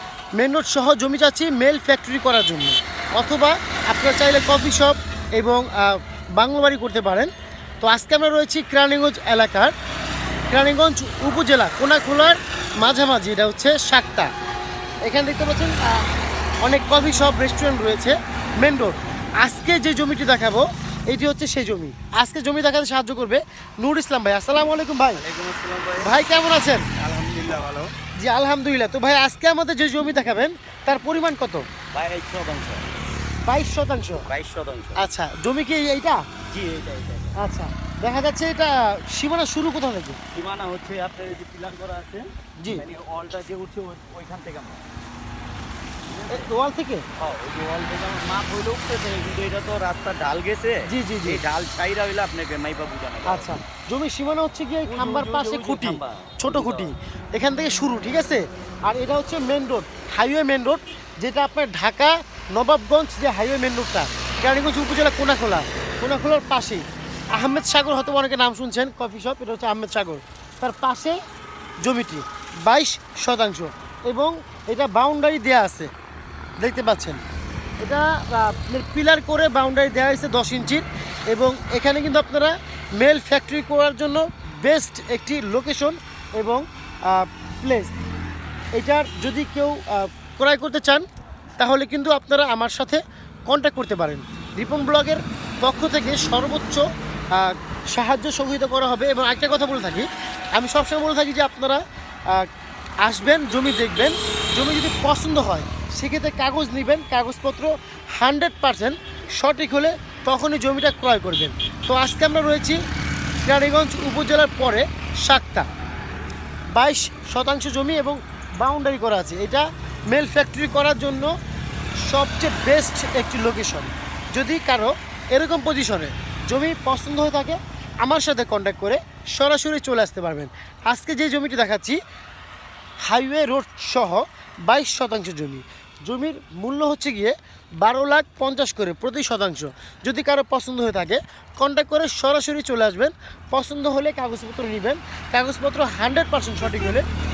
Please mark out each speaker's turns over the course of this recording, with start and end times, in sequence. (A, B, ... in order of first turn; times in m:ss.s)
0:00.4-0:07.3 A
0:07.8-0:09.7 A
0:10.5-0:14.3 A
0:15.0-0:25.2 A
0:25.1-0:26.1 B
0:26.0-0:26.9 A
0:27.0-0:27.9 B
0:28.2-0:31.6 A
0:31.9-0:32.8 B
0:33.4-0:34.3 A
0:34.3-0:35.0 B
0:35.0-0:36.2 A
0:36.5-0:37.3 B
0:37.4-0:40.2 A
0:40.3-0:44.8 B
0:42.6-0:42.8 A
0:46.1-0:46.5 B
0:46.3-0:47.0 A
0:47.2-0:53.6 B
0:50.9-0:51.4 A
0:53.2-1:11.2 A
0:54.9-0:56.9 B
1:11.8-1:15.9 A
1:16.6-1:17.2 A
1:17.8-1:27.9 A
1:28.8-1:31.0 A
1:31.6-1:36.8 A
1:37.4-1:41.8 A
1:43.0-1:52.8 A
1:53.4-1:55.7 A
1:56.7-2:01.3 A
2:02.1-2:12.0 A
2:13.0-2:27.0 A